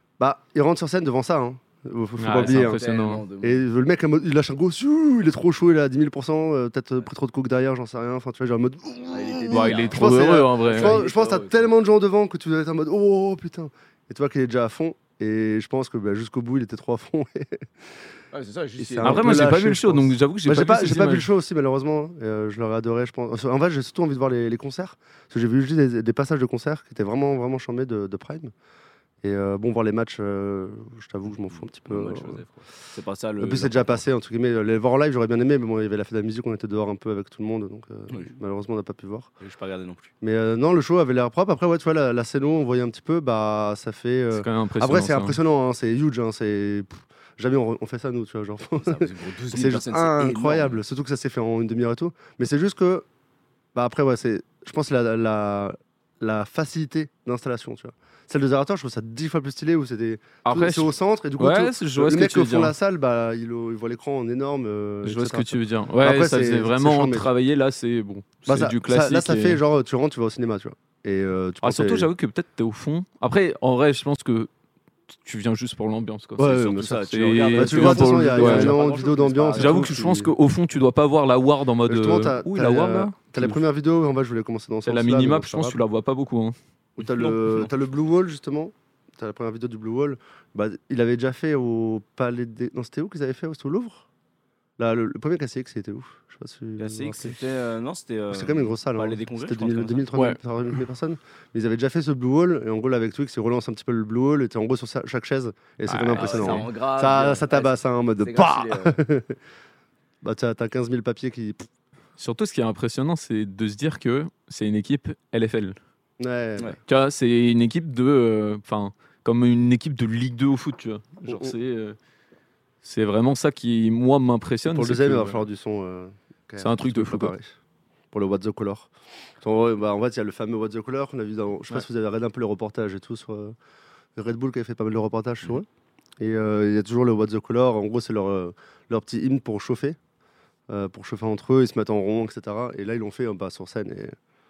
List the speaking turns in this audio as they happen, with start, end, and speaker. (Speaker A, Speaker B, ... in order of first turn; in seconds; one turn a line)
Speaker A: 0.2-2.8
Speaker B: 2.2-3.2
Speaker C: 2.4-3.6
Speaker A: 3.4-17.7
Speaker C: 9.1-11.7
Speaker B: 9.5-11.0
Speaker C: 18.3-19.5
Speaker B: 18.8-21.3
Speaker A: 19.0-28.5
Speaker A: 29.2-32.4
Speaker C: 31.5-34.0
Speaker A: 33.4-39.3
Speaker C: 39.4-40.1
Speaker A: 40.2-53.1
Speaker B: 44.3-45.4
Speaker C: 48.8-50.8
Speaker A: 53.8-67.3
Speaker B: 60.4-62.8
Speaker B: 65.0-69.6
Speaker A: 68.5-72.1
Speaker B: 71.6-74.5
Speaker B: 75.2-76.5
Speaker A: 76.4-77.0
Speaker C: 76.4-80.0
Speaker B: 77.0-78.8
Speaker A: 77.5-80.3
Speaker B: 79.5-83.6
Speaker A: 81.9-85.8
Speaker B: 84.9-86.5
Speaker A: 87.0-94.1
Speaker C: 87.0-87.7
Speaker A: 94.8-97.4
Speaker C: 96.8-100.1
Speaker A: 98.3-109.4
Speaker B: 100.1-100.4
Speaker B: 105.9-106.7
Speaker C: 106.2-109.0
Speaker A: 110.2-111.7
Speaker B: 112.2-115.8
Speaker A: 116.2-116.8
Speaker B: 116.9-122.0
Speaker A: 121.3-121.5
Speaker B: 122.8-125.4
Speaker A: 124.7-127.5
Speaker B: 126.6-127.3
Speaker A: 128.1-133.6
Speaker A: 134.2-135.7
Speaker A: 136.2-140.0
Speaker A: 140.7-144.2